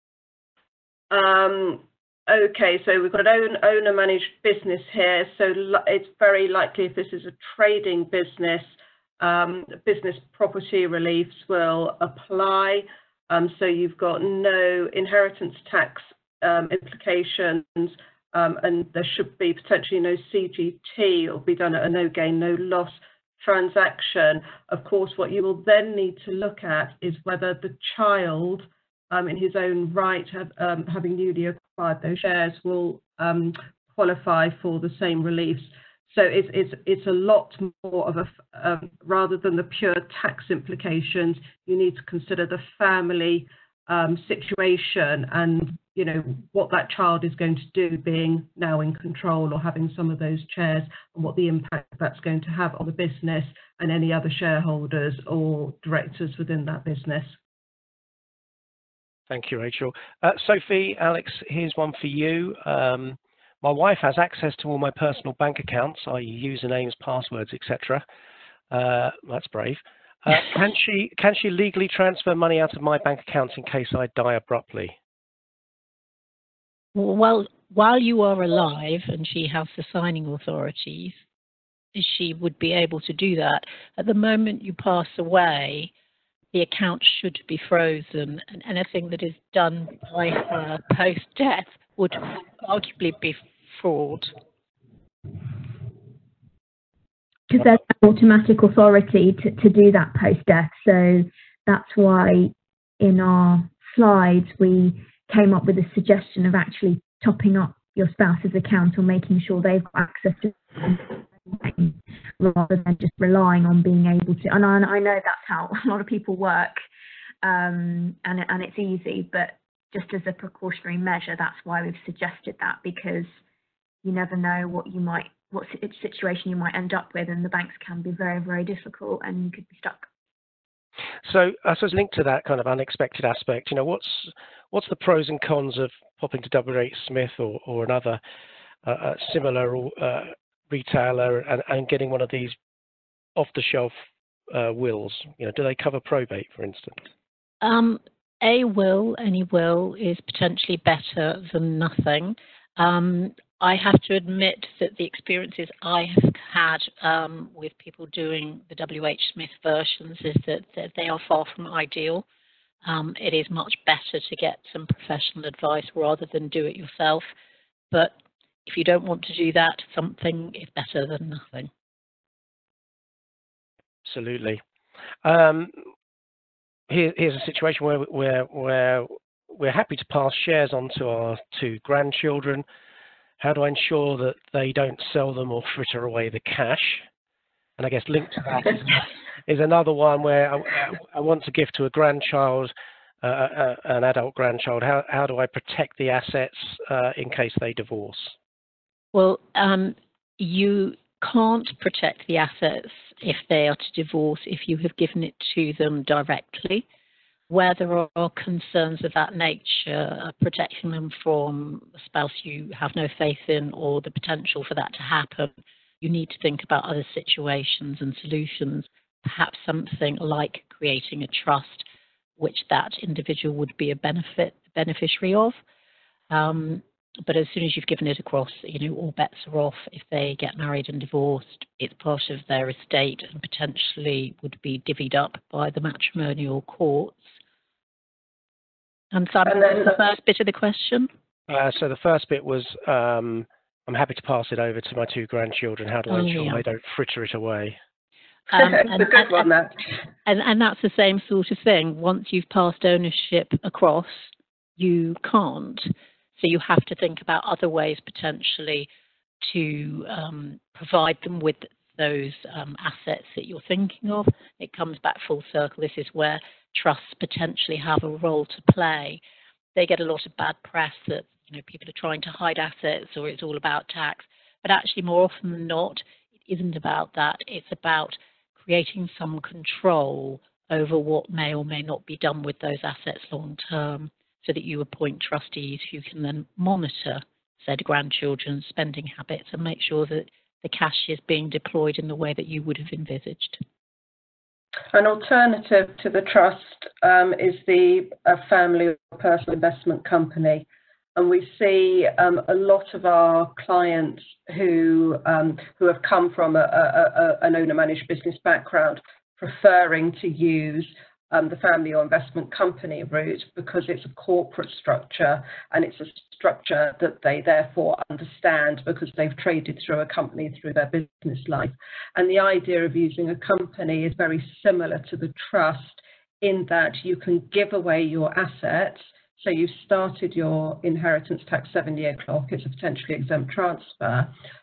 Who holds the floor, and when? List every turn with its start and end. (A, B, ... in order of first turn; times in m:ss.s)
0:01.1-0:57.4 A
0:59.3-1:08.0 B
1:08.7-1:15.0 B
1:16.9-1:21.2 C
1:21.9-1:25.9 C
1:26.5-1:34.3 C
1:37.5-1:56.8 D
1:57.4-2:03.3 D
2:04.0-2:10.1 D
2:11.2-2:18.2 B
2:18.8-2:22.6 B
2:23.4-2:23.9 B
2:24.5-2:27.1 B
2:27.6-2:42.2 C
2:42.8-2:47.3 C
2:48.7-2:51.7 C
2:54.0-2:54.6 B
2:55.2-2:55.8 B
2:56.9-3:02.6 B
3:03.4-3:07.0 B
3:07.8-3:18.4 B
3:19.1-3:26.9 C
3:27.5-3:41.9 C
3:42.4-3:45.6 C
3:46.3-3:57.3 C
3:59.1-4:01.1 C
3:59.5-3:59.8 A
4:01.5-4:07.8 B
4:06.1-4:06.6 C
4:08.5-4:09.5 C
4:08.5-4:09.8 A
4:10.3-4:18.9 C
4:19.4-4:29.2 C
4:29.8-4:53.6 C
4:54.9-5:34.3 A